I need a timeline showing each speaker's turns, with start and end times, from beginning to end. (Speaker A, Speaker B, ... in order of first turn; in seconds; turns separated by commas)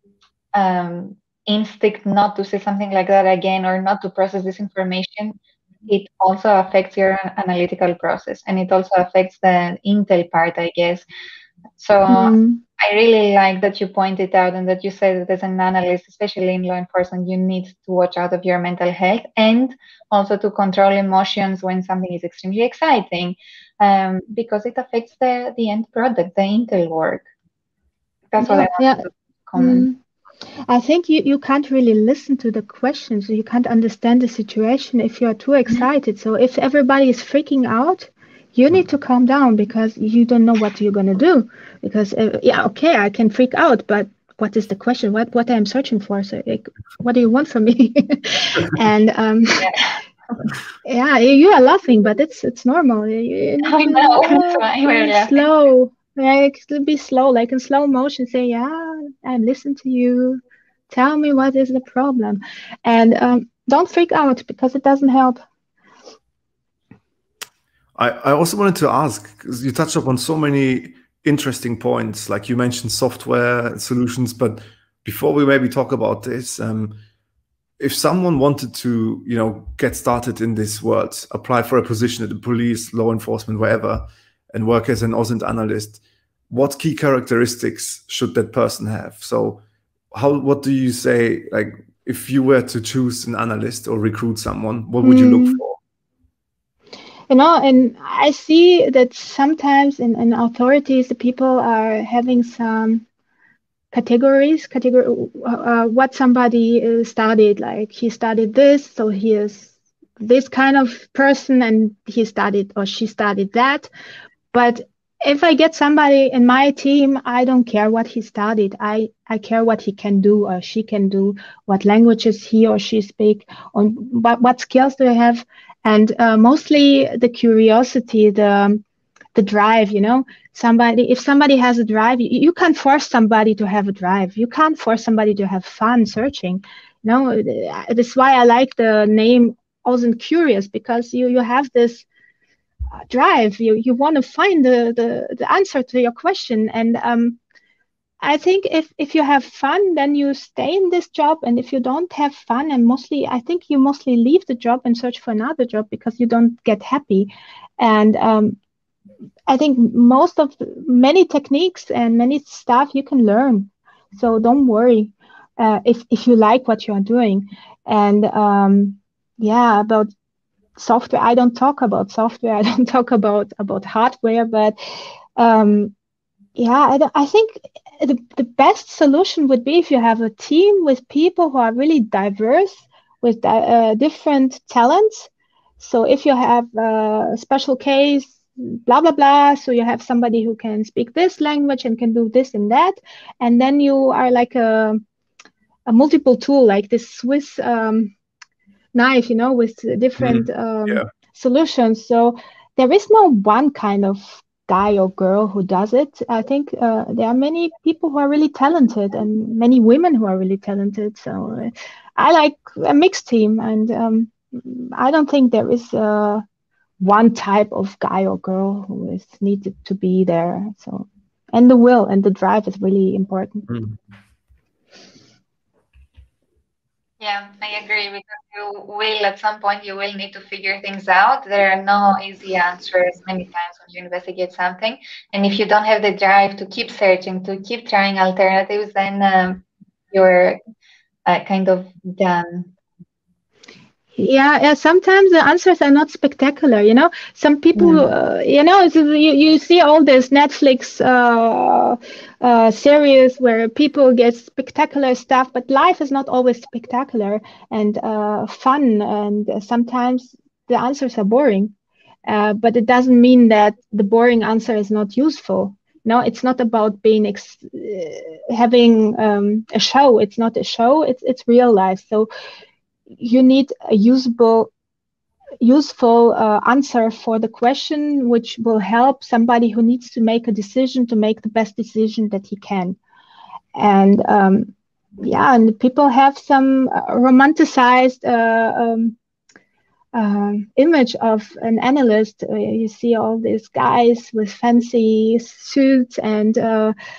Speaker A: 0.5-11.1, Speaker A: 11.8-27.2, Speaker B: 12.1-12.6, Speaker A: 28.3-29.9, Speaker B: 28.4-29.1, Speaker B: 29.6-30.0, Speaker B: 30.7-49.7, Speaker B: 50.9-65.4, Speaker A: 53.6-55.4, Speaker C: 68.0-77.0, Speaker C: 77.8-89.6, Speaker C: 90.1-95.8, Speaker B: 95.0-95.6, Speaker B: 97.3-103.0, Speaker B: 103.9-113.9, Speaker B: 114.5-128.8, Speaker B: 129.3-142.1, Speaker B: 143.1-147.4, Speaker B: 148.2-158.6, Speaker B: 159.5-170.1, Speaker B: 170.8-174.8, Speaker B: 175.4-175.9, Speaker B: 176.6-195.0, Speaker B: 195.9-198.1, Speaker B: 198.9-216.4, Speaker C: 200.2-201.1, Speaker B: 217.0-223.7, Speaker C: 223.7-223.9, Speaker A: 227.2-240.6, Speaker A: 241.3-242.7, Speaker B: 244.2-261.7, Speaker A: 247.8-248.0, Speaker B: 262.3-272.3, Speaker B: 273.2-274.7, Speaker B: 275.6-283.0, Speaker B: 283.8-289.2, Speaker B: 290.1-296.9